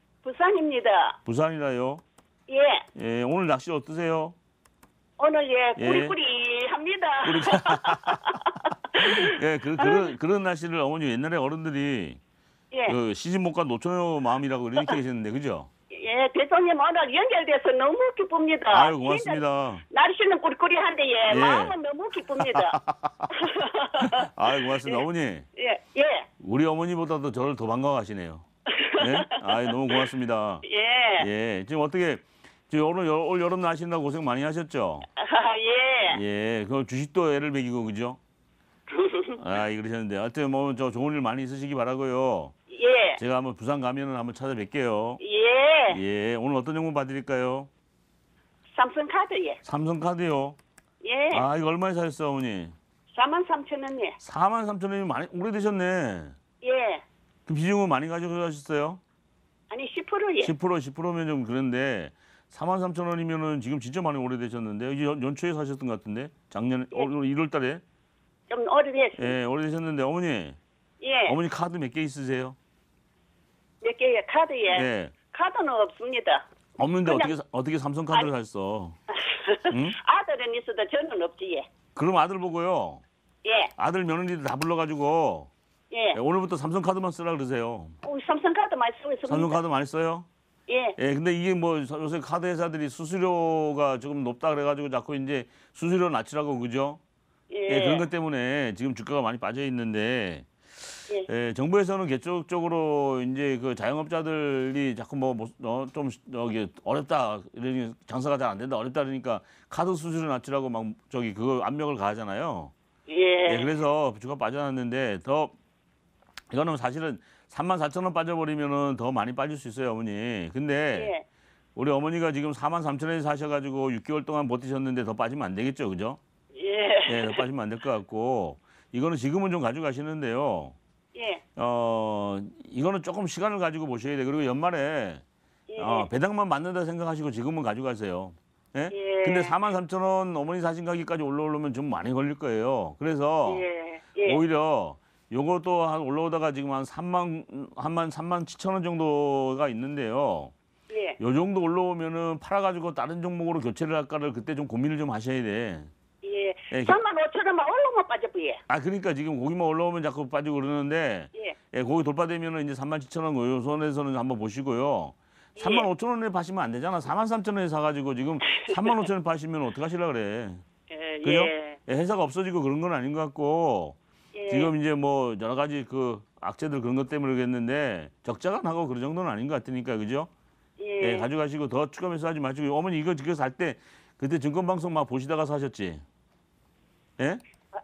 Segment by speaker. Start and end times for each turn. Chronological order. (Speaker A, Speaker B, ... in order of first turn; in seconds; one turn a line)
Speaker A: 0.2-1.2
Speaker B: 1.2-2.0
Speaker A: 2.5-2.8
Speaker B: 2.9-4.3
Speaker A: 5.2-10.1
Speaker B: 5.8-6.1
Speaker B: 7.2-8.4
Speaker B: 9.0-12.2
Speaker A: 12.7-13.0
Speaker B: 12.9-15.7
Speaker A: 15.9-22.8
Speaker B: 18.7-19.8
Speaker B: 21.3-21.7
Speaker B: 22.3-25.4
Speaker A: 23.4-24.3
Speaker A: 25.6-26.3
Speaker B: 26.4-28.4
Speaker A: 28.8-30.0
Speaker B: 29.0-30.6
Speaker A: 30.6-31.3
Speaker B: 31.2-35.0
Speaker A: 35.2-36.2
Speaker B: 36.1-38.2
Speaker A: 38.9-39.4
Speaker B: 39.4-42.5
Speaker A: 42.7-43.2
Speaker B: 43.2-45.2
Speaker A: 45.2-46.0
Speaker B: 45.9-47.7
Speaker A: 48.7-49.6
Speaker B: 49.6-50.6
Speaker A: 51.0-51.5
Speaker B: 51.3-52.7
Speaker A: 53.1-54.2
Speaker B: 54.2-56.4
Speaker A: 56.6-57.0
Speaker B: 57.5-59.0
Speaker A: 59.7-60.5
Speaker B: 60.4-67.8
Speaker A: 68.5-69.3
Speaker B: 69.2-70.6
Speaker A: 71.0-71.3
Speaker B: 71.2-72.6
Speaker A: 73.8-76.4
Speaker B: 74.7-75.2
Speaker B: 76.8-79.0
Speaker A: 77.0-77.3
Speaker A: 79.3-81.7
Speaker B: 79.7-80.0
Speaker B: 82.0-83.0
Speaker A: 83.4-83.7
Speaker B: 83.8-85.5
Speaker A: 85.9-86.2
Speaker B: 86.1-88.0
Speaker A: 88.0-89.6
Speaker B: 89.3-90.3
Speaker A: 90.7-91.0
Speaker B: 91.0-97.0
Speaker A: 97.5-98.0
Speaker B: 97.7-100.5
Speaker B: 101.2-112.7
Speaker A: 113.1-113.7
Speaker B: 113.5-115.5
Speaker B: 116.5-121.1
Speaker A: 120.9-121.2
Speaker B: 121.8-126.2
Speaker A: 126.5-127.4
Speaker B: 127.1-130.8
Speaker A: 131.1-131.4
Speaker B: 131.6-135.2
Speaker A: 135.7-136.1
Speaker B: 135.8-143.6
Speaker A: 138.9-139.5
Speaker A: 143.4-144.4
Speaker B: 144.2-150.5
Speaker A: 150.9-151.2
Speaker B: 151.2-155.9
Speaker A: 156.2-158.6
Speaker B: 156.7-157.0
Speaker B: 158.7-170.6
Speaker A: 165.6-165.9
Speaker A: 168.5-169.0
Speaker A: 170.9-171.8
Speaker B: 171.2-174.0
Speaker A: 174.3-174.7
Speaker B: 174.5-180.3
Speaker A: 180.8-181.3
Speaker B: 181.0-186.0